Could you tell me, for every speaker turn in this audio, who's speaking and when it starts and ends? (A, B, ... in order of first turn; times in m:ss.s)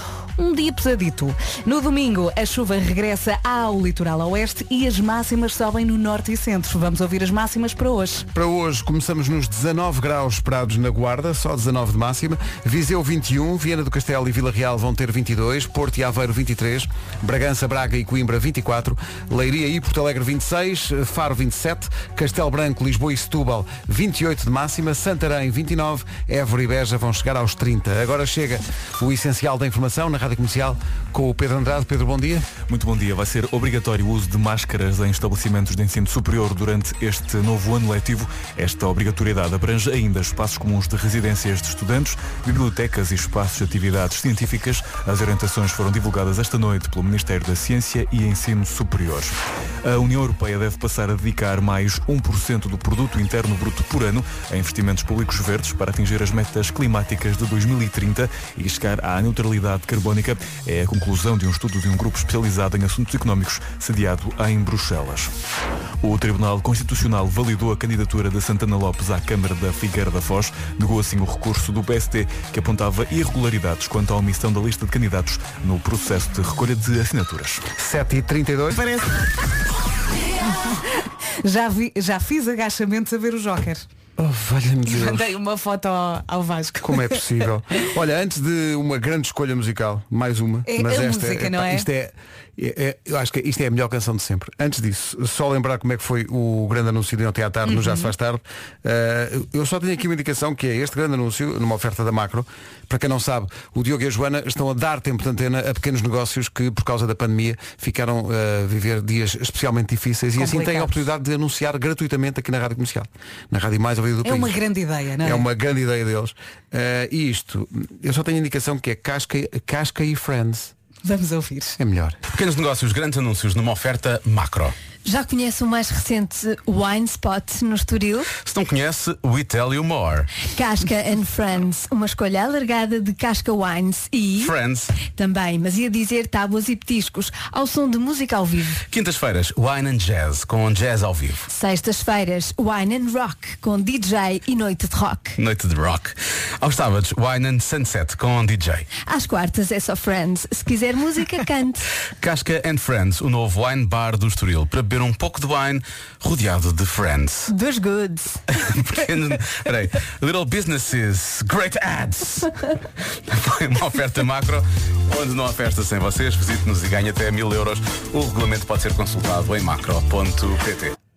0:00.4-0:08.3 A
0:08.3-0:32.5 B
0:32.7-1:05.3 C
1:06.0-1:17.7 C
1:17.7-1:18.8 B
1:18.7-1:19.3 A
1:20.5-1:23.8 A
1:24.2-1:25.4 B
1:24.8-1:27.2 A
1:26.8-1:54.6 B
1:30.7-1:31.9 A
1:37.6-1:38.1 A
1:50.4-1:51.0 A
1:54.2-1:55.4 A
1:55.2-2:00.7 B
2:01.0-2:01.8 A
2:01.8-2:02.2 B
2:02.3-2:04.7 D
2:05.0-2:08.3 E
2:08.4-2:10.3 D
2:10.5-2:18.8 E
2:14.4-2:14.9 D
2:18.9-2:21.4 D
2:21.5-2:25.4 E
2:25.4-2:28.9 D
2:29.0-2:31.8 E
2:32.2-2:37.5 D
2:37.5-2:38.4 E
2:38.5-2:42.5 D
2:43.3-2:50.9 D